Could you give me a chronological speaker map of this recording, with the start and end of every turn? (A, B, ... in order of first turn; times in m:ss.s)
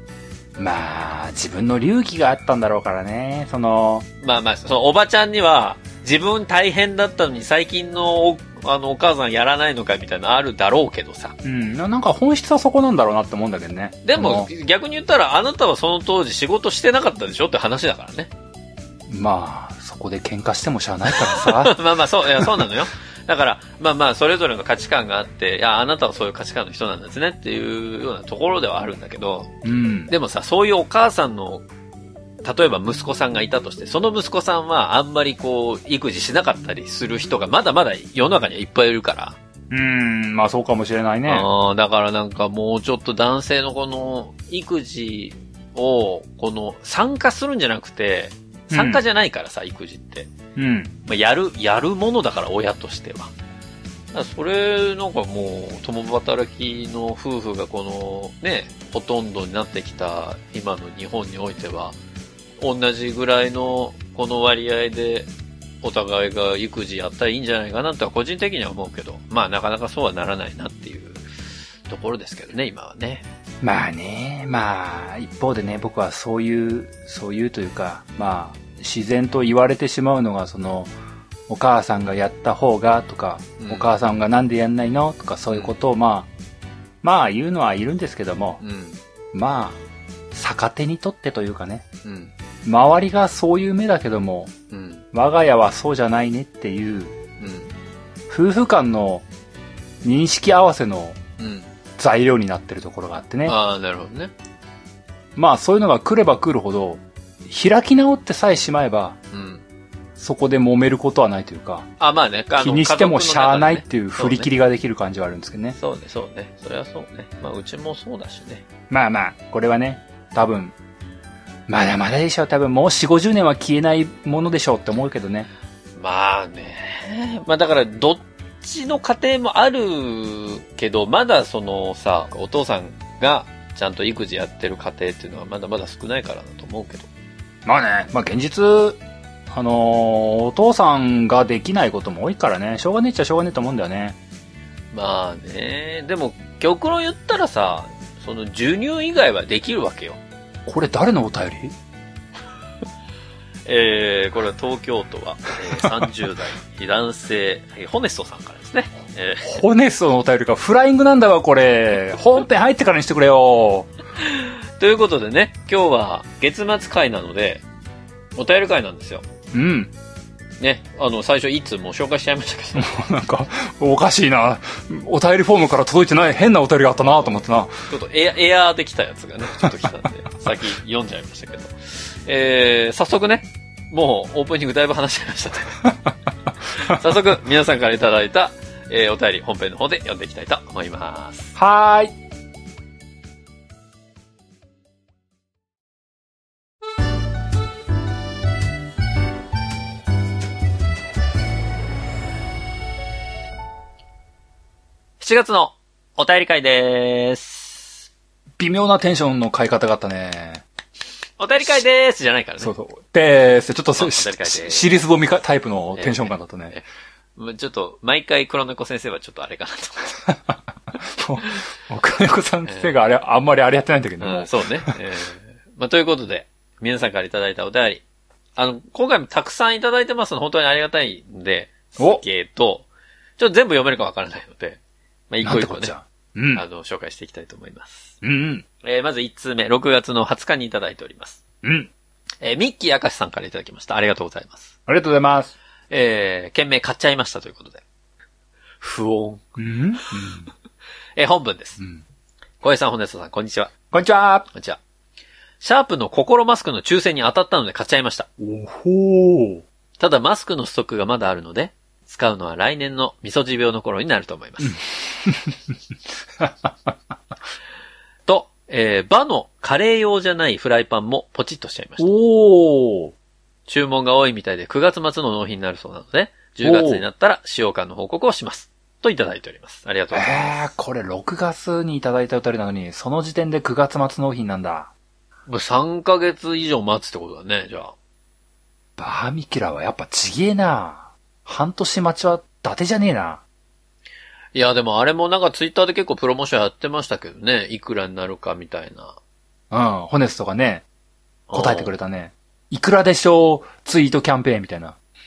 0:00.6-0:04.1 A
0:04.2-0:11.4 B
0:11.4-0:14.5 A
0:14.0-0:18.3 B
0:19.1-0:21.8 A
0:21.1-0:29.5 B
0:22.3-0:22.7 A
0:29.6-0:30.1 A
0:30.1-0:31.6 B
0:32.4-0:39.4 B
0:39.7-0:41.5 A
0:41.3-0:50.3 B
0:48.7-0:49.0 A
0:50.6-0:50.9 A
0:51.0-0:53.3 B
0:54.1-1:02.0 B
1:02.6-1:05.3 B
1:05.8-1:11.2 B
1:11.9-1:13.2 B
1:13.6-1:20.9 A
1:21.5-1:26.3 A
1:23.6-1:23.9 B
1:25.5-1:25.7 B
1:27.0-1:28.6 A
1:28.6-1:29.0 B
1:29.3-1:29.8 A
1:30.3-1:31.8 A
1:32.0-1:32.3 B
1:32.6-1:34.5 A
1:34.7-1:35.0 B
1:35.1-1:37.1 A
1:37.4-1:37.7 B
1:38.3-1:39.2 A
1:40.0-1:41.2 A
1:41.4-1:41.7 B
1:42.0-1:43.6 A
1:43.4-1:44.3 B
1:45.3-1:49.2 A
1:49.3-1:49.6 B
1:50.2-1:51.8 A
1:52.0-1:54.5 B
1:52.6-1:55.8 A
1:55.8-1:58.6 B
1:58.9-2:00.7 A
2:01.7-2:05.5 A
2:06.0-2:17.1 B
2:17.6-2:19.0 A
2:19.5-2:24.2 A
2:24.9-2:30.2 B
2:30.6-2:31.7 A
2:33.6-2:39.5 B
2:39.4-2:43.9 A
2:44.2-2:47.6 B
2:48.4-2:49.2 B
2:49.5-2:49.9 A
2:50.6-2:53.0 B
2:52.7-2:57.7 A
2:57.9-3:05.9 B
3:06.7-3:11.6 B
3:11.6-3:12.1 A
3:25.2-3:28.0 B
3:28.6-3:30.6 A
3:31.4-3:32.7 B
3:32.6-3:36.7 A
3:34.0-3:34.9 B
3:36.0-3:36.8 B
3:37.4-3:40.2 B
3:40.3-3:44.9 A
3:42.6-3:42.9 B
3:44.2-3:48.0 B
3:48.6-3:55.9 B
3:52.0-3:52.2 A
3:55.4-3:56.6 A
3:56.5-3:58.2 B
3:58.2-3:58.6 A
3:58.8-4:01.4 B
4:01.6-4:01.9 A
4:02.4-4:04.7 B
4:04.9-4:05.5 A
4:05.9-4:07.8 B
4:08.8-4:09.4 B
4:09.6-4:10.5 A
4:11.2-4:11.8 B
4:12.6-4:13.7 B
4:13.9-4:14.5 A
4:14.5-4:14.8 B
4:15.6-4:18.3 B
4:18.4-4:19.6 A
4:20.0-4:24.8 B
4:24.6-4:25.7 A
4:26.4-4:26.9 A
4:28.3-4:32.1 B
4:32.0-4:33.1 A
4:33.7-4:40.5 B
4:36.6-4:37.0 A
4:40.1-4:44.9 A
4:45.5-4:47.9 B
4:49.0-4:53.4 A
4:54.5-4:59.2 B
4:59.7-5:00.8 A
5:01.5-5:01.9 B
5:01.5-5:04.9 A